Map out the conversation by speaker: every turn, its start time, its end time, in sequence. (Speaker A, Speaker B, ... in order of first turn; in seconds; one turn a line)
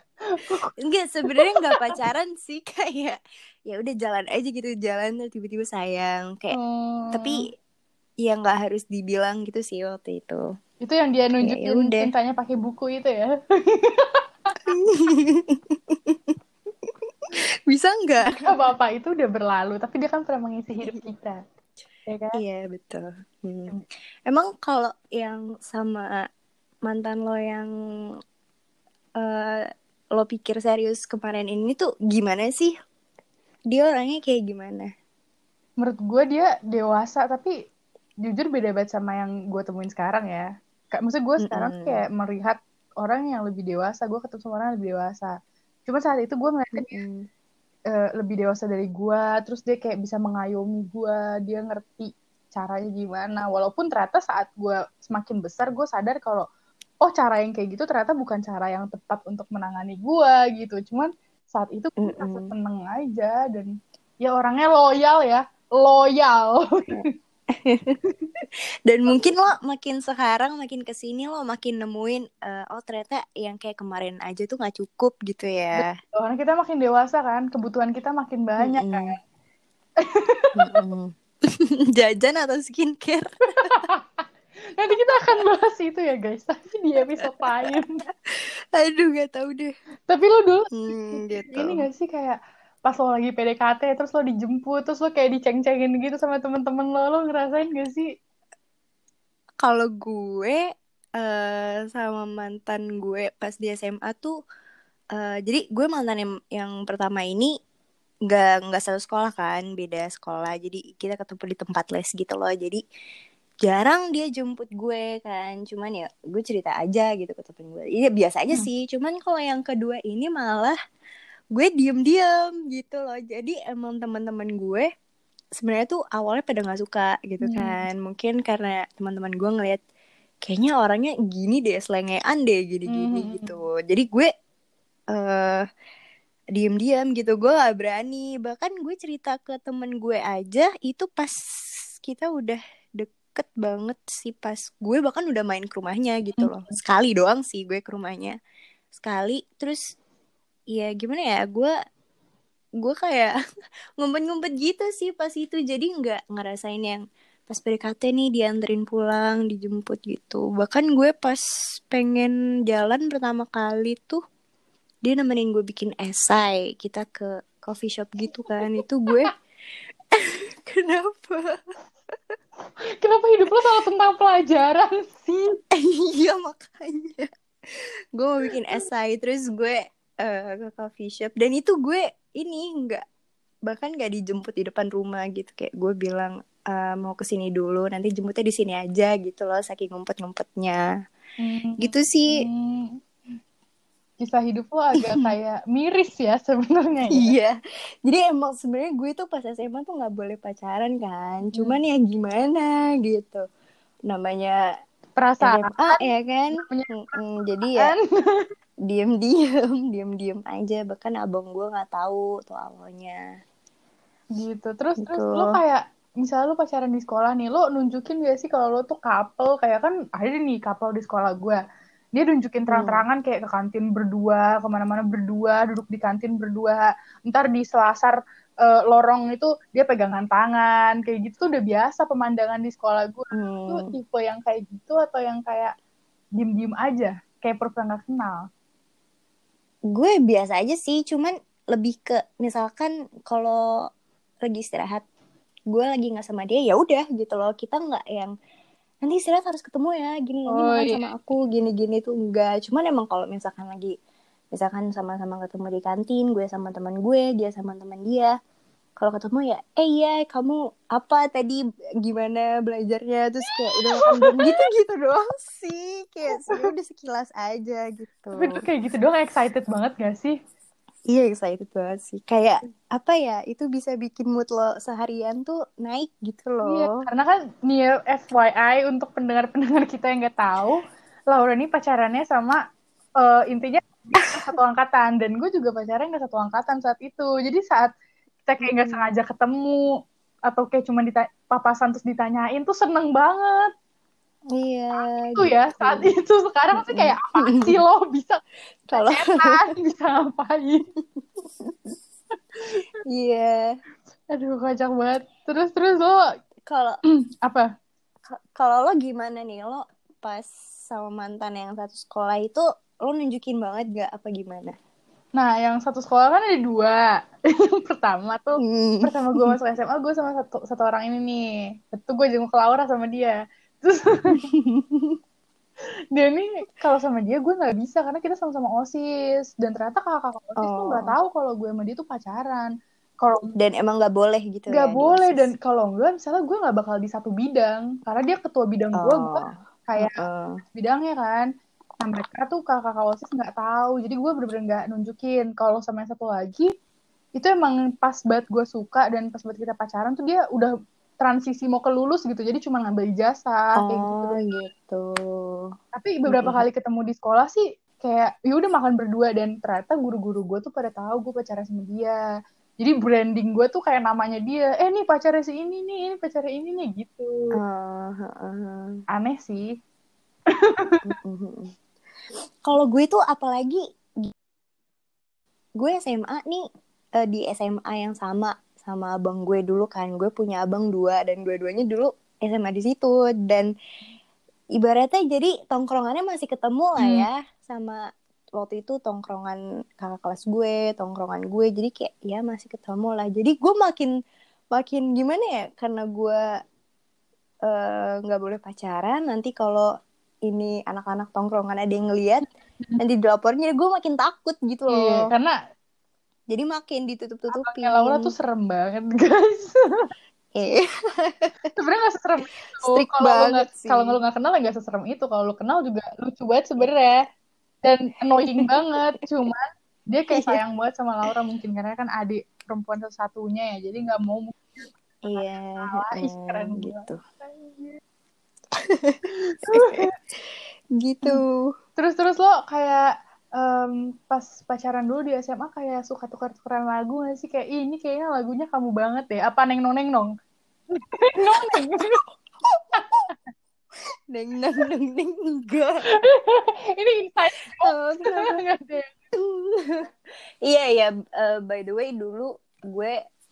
Speaker A: 0.3-0.7
Speaker B: 0.8-6.6
Speaker A: 1.4-1.8
Speaker A: 6.5-7.4
Speaker B: 7.1-7.5
Speaker B: 8.2-10.4
Speaker A: 10.8-14.7
Speaker B: 11.4-12.1
Speaker B: 14.7-16.4
Speaker B: 17.7-18.6
Speaker A: 18.4-21.4
Speaker A: 22.1-22.4
Speaker B: 22.3-26.3
Speaker B: 26.9-27.7
Speaker B: 29.2-32.7
Speaker B: 33.7-34.9
Speaker A: 35.8-37.5
Speaker A: 38.2-45.3
Speaker B: 41.4-42.0
Speaker A: 45.9-47.0
Speaker B: 46.8-47.2
Speaker A: 47.9-56.5
Speaker A: 57.0-63.7
Speaker B: 62.0-62.5
Speaker A: 64.2-67.1
Speaker B: 67.0-68.0
Speaker B: 68.9-76.0
Speaker A: 69.1-69.4
Speaker A: 75.8-79.2
Speaker B: 78.6-79.2
Speaker A: 80.0-80.5
Speaker B: 80.6-83.7
Speaker A: 83.7-84.2
Speaker A: 84.8-87.9
Speaker B: 87.2-87.7
Speaker B: 88.3-89.7
Speaker A: 90.1-98.1
Speaker B: 90.7-91.9
Speaker B: 99.6-100.6
Speaker B: 101.2-104.3
Speaker B: 105.1-107.5
Speaker B: 108.3-112.8
Speaker B: 113.6-120.8
Speaker B: 121.5-124.9
Speaker B: 125.6-129.8
Speaker A: 127.4-127.8
Speaker B: 130.5-134.3
Speaker A: 132.9-133.5
Speaker B: 135.1-135.7
Speaker B: 136.6-141.3
Speaker B: 142.0-148.4
Speaker B: 148.9-149.8
Speaker B: 150.7-151.7
Speaker B: 152.8-153.3
Speaker B: 154.0-164.2
Speaker B: 165.1-169.3
Speaker B: 170.2-171.5
Speaker A: 173.0-175.6
Speaker B: 175.7-183.0
Speaker B: 183.7-190.8
Speaker A: 191.4-193.0
Speaker B: 191.8-192.4
Speaker A: 194.2-197.3
Speaker B: 195.0-195.3
Speaker B: 197.1-203.4
Speaker B: 204.1-204.6
Speaker A: 205.2-206.0
Speaker B: 205.4-207.9
Speaker A: 206.6-208.5
Speaker B: 208.9-213.2
Speaker A: 214.4-221.6
Speaker B: 215.0-215.6
Speaker A: 222.2-235.7
Speaker B: 222.7-223.1
Speaker B: 233.3-233.9
Speaker A: 236.4-238.5
Speaker B: 239.9-243.6
Speaker B: 244.5-245.1
Speaker B: 245.7-248.3
Speaker B: 249.1-253.9
Speaker A: 250.5-251.1
Speaker B: 254.5-258.3
Speaker B: 259.0-268.6
Speaker A: 263.8-264.6
Speaker A: 268.4-270.4
Speaker B: 271.1-277.1
Speaker A: 276.6-282.6
Speaker A: 283.2-287.9
Speaker A: 288.5-289.9
Speaker B: 288.6-289.1
Speaker A: 290.5-293.7
Speaker B: 294.5-296.1
Speaker A: 295.0-298.4
Speaker B: 296.8-297.8
Speaker B: 298.9-299.6
Speaker A: 298.9-300.8
Speaker B: 301.6-302.0
Speaker B: 303.1-303.7
Speaker A: 304.3-306.2
Speaker B: 306.7-307.0
Speaker A: 307.1-307.7
Speaker B: 308.3-314.8
Speaker A: 315.4-317.0
Speaker A: 317.5-324.4
Speaker B: 318.6-319.5
Speaker B: 324.3-325.2
Speaker A: 326.1-333.6
Speaker B: 330.6-331.2
Speaker B: 333.6-335.5
Speaker A: 334.7-340.2
Speaker B: 339.0-340.6
Speaker A: 340.8-341.5
Speaker A: 342.0-346.7
Speaker A: 347.4-354.6
Speaker B: 353.8-355.7
Speaker A: 355.9-362.2
Speaker B: 356.3-356.6
Speaker A: 362.8-367.3
Speaker B: 367.6-369.0
Speaker A: 369.1-369.7
Speaker A: 370.6-371.0
Speaker B: 371.1-371.7
Speaker B: 372.7-374.3
Speaker B: 375.8-376.6
Speaker B: 377.2-383.7
Speaker B: 384.8-388.0
Speaker A: 387.0-387.3
Speaker B: 388.6-394.1
Speaker B: 394.7-396.4
Speaker B: 397.7-399.9
Speaker B: 400.5-402.4
Speaker B: 403.0-405.3
Speaker A: 404.9-405.6
Speaker B: 406.5-408.3
Speaker A: 407.5-410.0
Speaker B: 410.6-411.5
Speaker A: 411.8-417.2
Speaker B: 412.8-414.2
Speaker A: 417.8-428.0
Speaker B: 418.4-419.0
Speaker B: 420.3-420.6
Speaker B: 425.2-427.2
Speaker B: 428.8-430.1
Speaker A: 429.6-430.1
Speaker B: 431.0-431.7
Speaker A: 432.0-440.3
Speaker A: 440.9-442.2
Speaker B: 441.6-442.0
Speaker A: 442.9-443.4
Speaker B: 442.9-443.2
Speaker B: 444.3-446.1
Speaker A: 446.1-449.1
Speaker B: 447.8-448.6
Speaker B: 449.4-450.1
Speaker B: 450.7-453.2